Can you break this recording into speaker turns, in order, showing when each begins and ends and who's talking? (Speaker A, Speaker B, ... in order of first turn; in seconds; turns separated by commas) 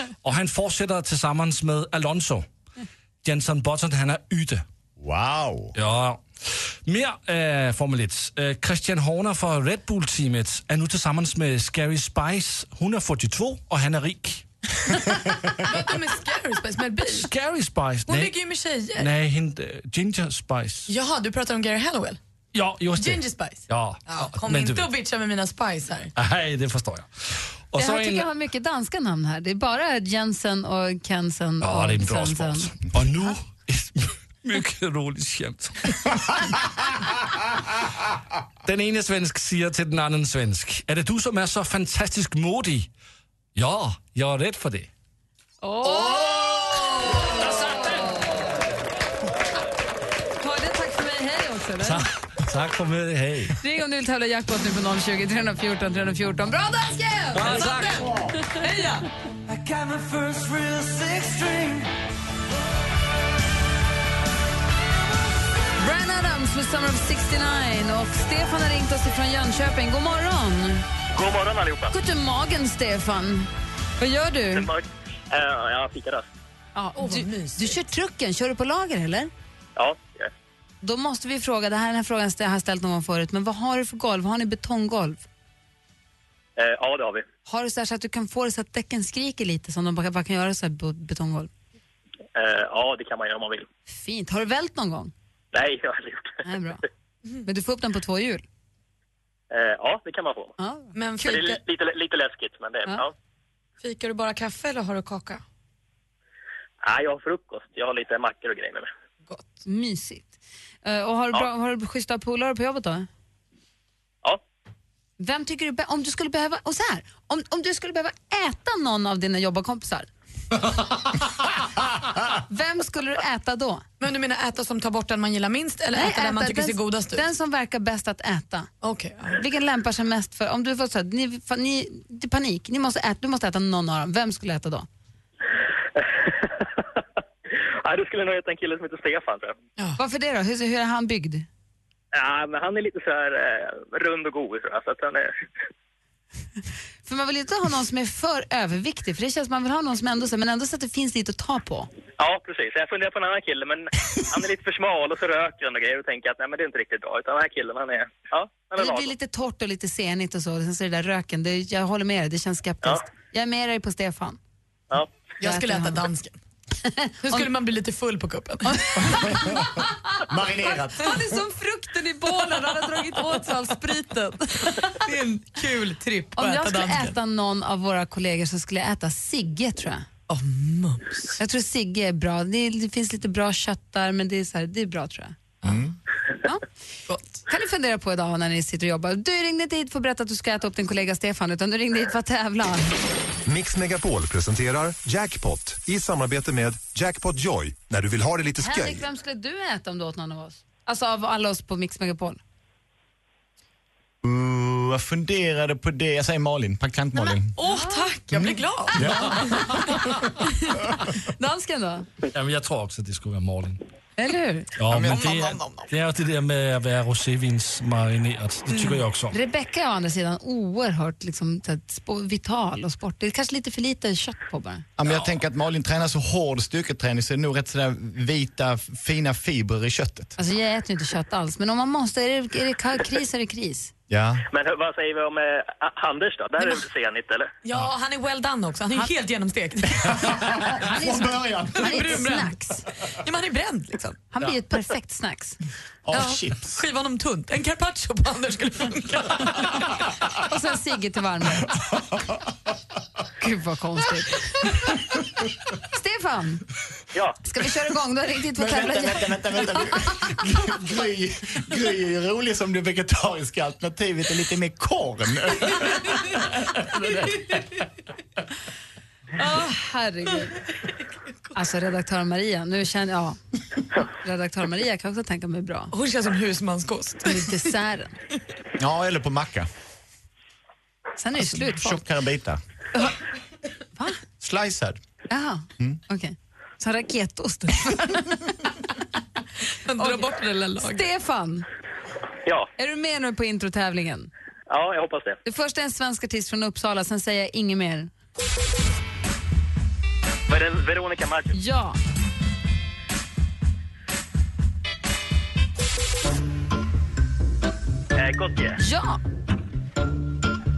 Speaker A: 0.2-2.5, Speaker A: 3.2-4.6, Speaker B: 5.0-5.7, Speaker A: 5.8-14.4, Speaker C: 15.6-17.3, Speaker A: 17.0-18.4, Speaker C: 18.1-19.1, Speaker A: 18.9-20.9, Speaker C: 20.9-22.2, Speaker A: 22.5-24.9, Speaker C: 22.9-26.1, Speaker A: 26.1-28.3, Speaker D: 27.8-32.7, Speaker A: 31.6-36.1, Speaker A: 38.6-42.9, Speaker A: 43.5-44.9, Speaker D: 45.6-48.3, Speaker A: 47.2-48.2, Speaker D: 50.4-52.0, Speaker A: 51.8-53.6, Speaker D: 53.6-58.1, Speaker A: 57.3-58.1, Speaker B: 57.8-58.4, Speaker C: 58.6-59.1, Speaker E: 59.5-61.9, Speaker D: 65.8-70.8, Speaker F: 71.1-71.9, Speaker D: 71.9-74.7, Speaker F: 74.5-76.3, Speaker D: 76.8-79.3, Speaker C: 77.0-77.8, Speaker F: 79.8-80.3, Speaker D: 80.8-85.2, Speaker F: 86.6-87.2, Speaker D: 87.5-91.5, Speaker F: 92.3-93.7, Speaker D: 93.9-95.1, Speaker F: 95.5-96.4, Speaker D: 96.4-96.8, Speaker D: 97.5-98.4, Speaker F: 99.5-100.5, Speaker D: 100.6-100.9, Speaker C: 100.9-101.6, Speaker F: 101.2-103.1, Speaker C: 103.8-105.4, Speaker F: 106.8-108.9, Speaker D: 109.7-113.1, Speaker D: 115.2-120.1, Speaker A: 120.6-121.2, Speaker D: 122.5-123.8, Speaker C: 124.0-127.2, Speaker D: 126.0-128.7, Speaker C: 128.8-129.4, Speaker D: 129.3-134.9, Speaker F: 135.9-136.8, Speaker F: 137.5-139.6, Speaker D: 140.0-141.5, Speaker F: 142.1-145.3, Speaker D: 147.0-151.9, Speaker F: 152.2-159.1, Speaker D: 158.8-164.4, Speaker C: 165.4-166.4, Speaker D: 165.4-166.0, Speaker D: 166.9-167.5, Speaker C: 167.2-169.3, Speaker D: 168.7-169.6, Speaker B: 169.1-169.6, Speaker B: 170.3-171.1, Speaker D: 171.0-174.8, Speaker C: 174.8-177.2, Speaker D: 176.3-180.1, Speaker C: 180.3-181.4, Speaker D: 181.4-185.4, Speaker C: 185.6-185.9, Speaker B: 185.6-185.9, Speaker C: 187.1-187.4, Speaker D: 187.5-192.9, Speaker G: 193.4-199.1, Speaker D: 198.6-202.4, Speaker B: 204.2-207.5, Speaker C: 207.1-209.7, Speaker D: 207.6-208.1, Speaker B: 208.9-209.4, Speaker D: 211.4-212.1, Speaker A: 212.3-213.8, Speaker D: 214.2-214.7, Speaker A: 214.8-219.3, Speaker B: 214.9-215.3, Speaker C: 215.1-215.8, Speaker C: 218.7-219.0, Speaker D: 219.3-224.9, Speaker B: 225.0-230.3, Speaker D: 230.4-233.9, Speaker B: 234.1-234.4, Speaker F: 234.5-237.5, Speaker C: 237.6-240.3, Speaker B: 240.0-242.2, Speaker D: 240.9-242.8, Speaker C: 241.8-244.2, Speaker D: 244.3-245.6, Speaker B: 246.0-246.8, Speaker C: 246.1-249.7, Speaker D: 250.5-251.7, Speaker D: 253.4-254.9, Speaker D: 255.9-256.6, Speaker D: 257.4-260.2, Speaker B: 258.6-267.4, Speaker D: 269.4-270.6, Speaker D: 271.5-273.4, Speaker D: 274.0-275.9, Speaker C: 275.9-277.7, Speaker D: 277.2-278.1, Speaker B: 278.8-279.7, Speaker D: 281.2-282.0, Speaker B: 281.4-282.6, Speaker B: 284.4-285.0, Speaker D: 285.3-288.6, Speaker C: 289.8-291.1, Speaker D: 290.0-290.2, Speaker D: 290.8-291.6, Speaker F: 292.4-292.7, Speaker D: 292.8-294.3, Speaker F: 294.7-295.4, Speaker D: 295.4-298.1, Speaker F: 300.5-301.5, Speaker D: 301.5-302.0, Speaker F: 308.1-308.8, Speaker D: 308.8-309.2